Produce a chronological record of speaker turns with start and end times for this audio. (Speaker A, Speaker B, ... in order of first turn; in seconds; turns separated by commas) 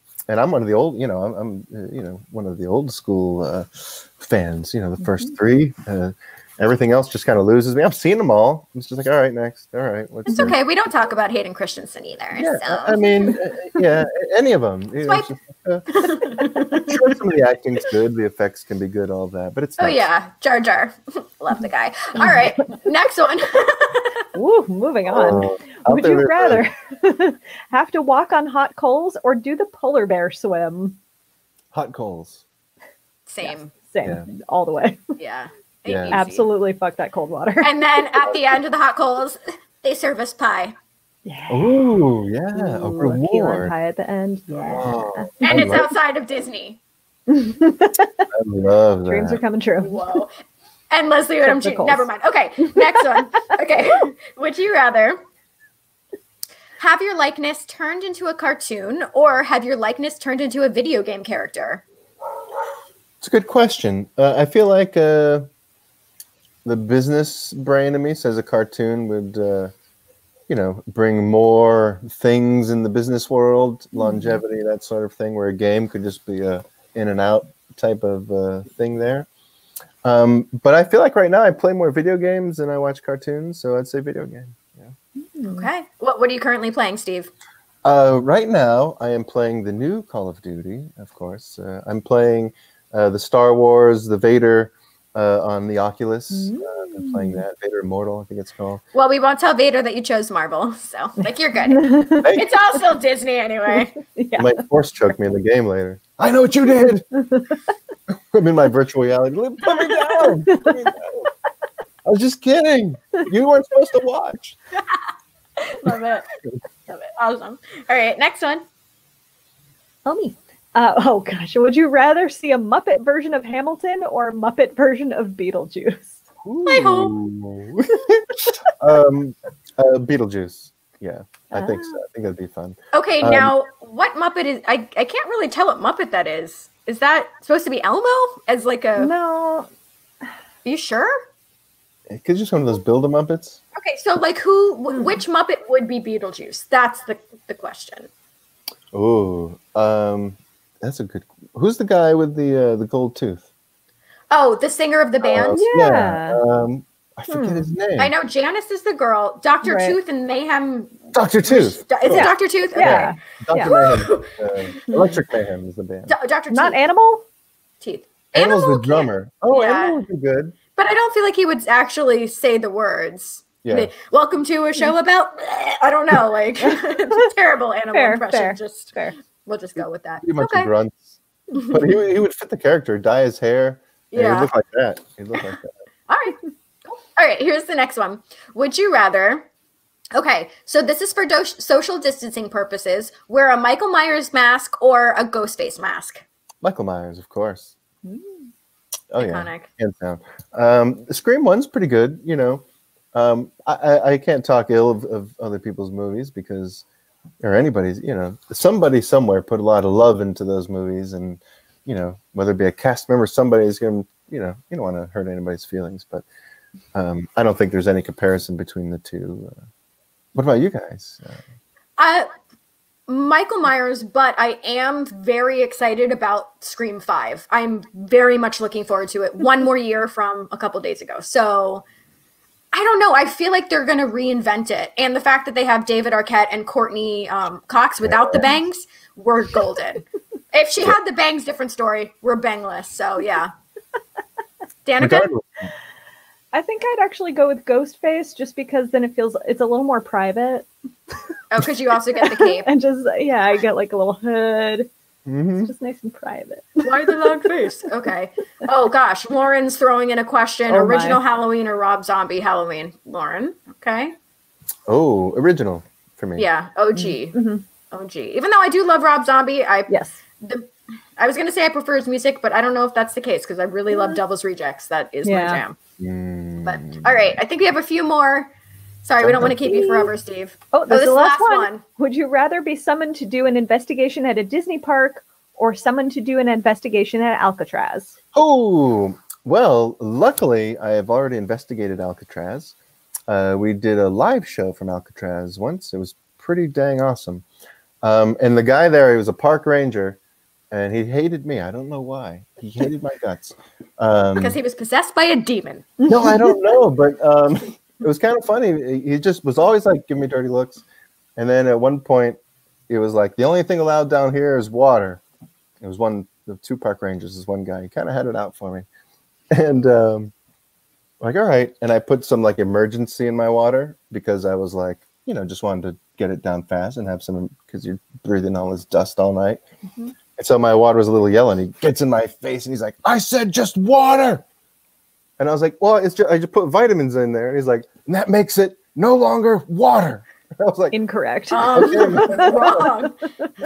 Speaker A: 0.3-10.6, Speaker B: 10.3-13.2, Speaker A: 12.3-15.9, Speaker B: 15.0-15.3, Speaker B: 15.9-16.9, Speaker A: 16.9-20.1, Speaker B: 19.8-24.2, Speaker C: 24.4-31.0, Speaker A: 25.1-26.7, Speaker A: 31.7-32.4, Speaker B: 33.3-33.7, Speaker C: 33.4-35.0, Speaker B: 35.2-36.5, Speaker A: 35.9-36.2, Speaker C: 36.1-38.2, Speaker B: 37.6-40.7, Speaker C: 41.3-42.0, Speaker A: 41.5-43.7, Speaker C: 42.5-45.8, Speaker A: 44.6-45.9, Speaker B: 45.4-46.8, Speaker C: 47.3-48.2, Speaker A: 48.3-49.4, Speaker C: 49.1-50.0, Speaker B: 49.8-50.3, Speaker B: 50.9-55.2, Speaker C: 51.4-52.1, Speaker C: 52.6-53.2, Speaker B: 56.8-61.8, Speaker A: 63.2-65.5, Speaker A: 66.7-69.7, Speaker A: 70.5-79.3, Speaker C: 74.0-74.4, Speaker A: 80.0-84.9, Speaker C: 85.3-85.7, Speaker B: 85.5-87.3, Speaker A: 87.8-98.8, Speaker C: 96.3-97.4, Speaker B: 98.9-104.0, Speaker C: 101.7-102.4, Speaker C: 104.1-104.6, Speaker A: 104.4-107.1, Speaker A: 108.3-111.3, Speaker C: 110.1-110.9, Speaker A: 112.1-114.6, Speaker B: 115.6-116.3, Speaker B: 116.9-118.6, Speaker C: 120.0-126.2, Speaker A: 126.4-128.3, Speaker B: 126.7-127.2, Speaker A: 128.8-133.5, Speaker C: 131.5-132.0, Speaker B: 132.9-139.1, Speaker C: 139.0-139.7, Speaker B: 140.7-141.1, Speaker A: 142.1-143.6, Speaker B: 143.8-148.1, Speaker C: 144.9-145.2, Speaker A: 148.9-153.5, Speaker B: 154.3-155.6, Speaker A: 155.2-158.1, Speaker C: 155.5-156.4, Speaker C: 157.3-157.7, Speaker B: 158.0-164.3, Speaker C: 159.6-160.0, Speaker A: 161.1-166.2, Speaker C: 162.1-163.7, Speaker C: 164.9-165.1, Speaker B: 166.1-166.8, Speaker C: 166.5-167.2, Speaker B: 167.8-170.0, Speaker A: 168.3-170.6, Speaker B: 170.8-180.7, Speaker A: 173.6-173.9, Speaker C: 177.9-179.2, Speaker A: 180.2-185.7, Speaker B: 181.6-181.8, Speaker B: 184.1-184.5, Speaker B: 186.1-186.4, Speaker B: 187.2-189.5, Speaker B: 190.2-196.2, Speaker A: 196.6-197.7, Speaker C: 198.0-198.5, Speaker A: 199.1-202.6, Speaker B: 199.2-199.7, Speaker A: 203.1-206.8, Speaker A: 207.4-216.3, Speaker A: 216.9-219.5, Speaker A: 220.3-221.4, Speaker B: 222.0-222.3, Speaker B: 223.1-231.8, Speaker B: 232.7-243.5, Speaker A: 238.0-238.5, Speaker B: 244.9-245.3, Speaker A: 245.0-245.7, Speaker C: 246.5-250.7, Speaker B: 251.5-252.7, Speaker C: 252.2-254.9, Speaker A: 255.3-255.7, Speaker C: 255.6-257.4, Speaker B: 256.8-264.1, Speaker C: 260.7-261.2, Speaker A: 264.9-266.5, Speaker B: 266.4-267.4, Speaker C: 266.9-267.6, Speaker B: 267.9-275.8, Speaker C: 269.9-270.2, Speaker C: 273.9-274.2, Speaker C: 275.2-275.6, Speaker A: 276.0-277.3, Speaker B: 276.6-278.5, Speaker B: 279.1-281.8, Speaker A: 279.2-279.7, Speaker C: 279.7-280.1, Speaker C: 280.7-288.1, Speaker A: 288.3-292.8, Speaker A: 293.3-297.4, Speaker A: 298.0-300.2, Speaker A: 300.7-304.6, Speaker B: 304.4-305.9, Speaker C: 306.0-306.5, Speaker A: 306.1-310.8, Speaker A: 311.4-315.2, Speaker A: 315.8-318.9, Speaker A: 319.5-320.3, Speaker A: 321.2-329.6, Speaker A: 330.4-334.4, Speaker A: 335.4-341.0, Speaker C: 340.9-343.5, Speaker B: 341.5-343.1, Speaker A: 341.7-343.0